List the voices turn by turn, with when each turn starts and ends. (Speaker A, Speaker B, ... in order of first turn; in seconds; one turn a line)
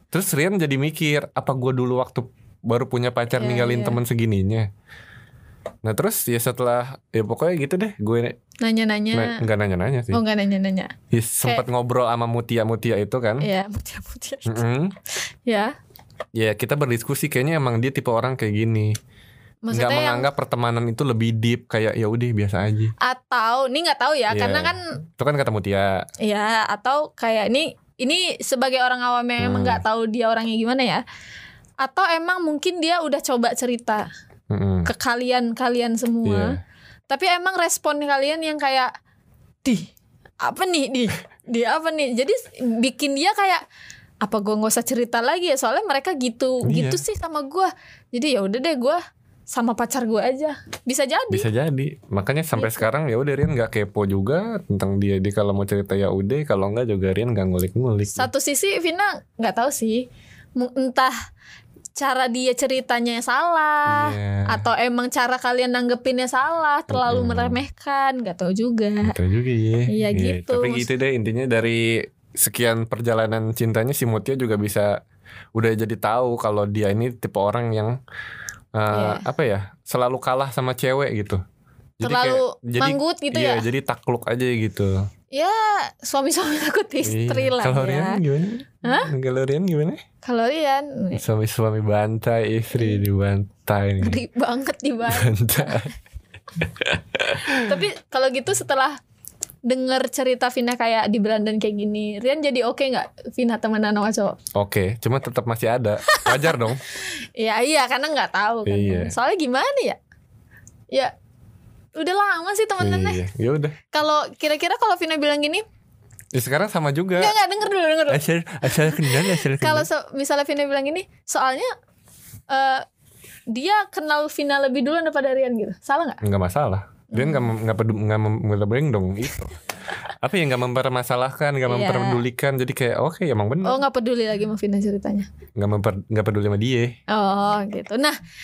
Speaker A: 0.1-4.7
Speaker B: 3.3-4.0
Speaker A: 5.8-8.4
Speaker B: 8.6-9.4
Speaker A: 9.1-10.2
Speaker B: 10.1-11.7
Speaker A: 11.1-13.5
Speaker B: 13.4-14.6
Speaker A: 14.5-14.9
Speaker B: 15.5-15.7
Speaker A: 16.4-18.9
Speaker B: 19.6-20.3
Speaker A: 19.7-22.9
Speaker B: 23.0-24.8
Speaker A: 24.3-26.1
Speaker B: 26.2-31.0
Speaker A: 29.4-29.8
Speaker B: 31.8-34.1
Speaker A: 34.5-34.9
Speaker B: 34.9-36.6
Speaker A: 36.2-36.5
Speaker B: 37.1-38.9
Speaker B: 39.6-39.9
Speaker B: 40.4-43.6
Speaker B: 44.2-49.0
Speaker A: 46.6-47.0
Speaker B: 49.5-51.5
Speaker A: 51.3-58.3
Speaker B: 52.6-52.9
Speaker B: 58.1-60.1
Speaker B: 60.6-61.1
Speaker B: 62.0-69.2
Speaker A: 63.9-64.6
Speaker A: 66.9-67.6
Speaker A: 69.0-75.0
Speaker B: 69.9-70.9
Speaker A: 75.5-78.0
Speaker A: 78.8-81.4
Speaker B: 78.9-79.2
Speaker A: 82.0-85.0
Speaker B: 82.0-83.7
Speaker B: 85.3-88.2
Speaker A: 87.0-90.0
Speaker B: 88.8-89.1
Speaker B: 90.2-91.2
Speaker A: 91.2-94.2
Speaker B: 92.8-93.0
Speaker B: 94.0-95.9
Speaker A: 95.1-95.9
Speaker A: 96.6-97.6
Speaker B: 97.5-99.0
Speaker B: 99.7-104.4
Speaker A: 104.5-106.8
Speaker B: 106.1-110.0
Speaker A: 108.7-109.1
Speaker B: 112.0-113.2
Speaker A: 112.8-113.8
Speaker B: 113.9-115.6
Speaker A: 116.3-117.3
Speaker B: 117.2-121.7
Speaker A: 118.1-119.9
Speaker B: 122.5-122.8
Speaker B: 123.5-126.2
Speaker A: 126.2-129.6
Speaker B: 127.1-127.5
Speaker A: 130.2-133.8
Speaker B: 131.7-132.2
Speaker B: 133.6-135.3
Speaker A: 135.6-136.9
Speaker B: 137.1-138.2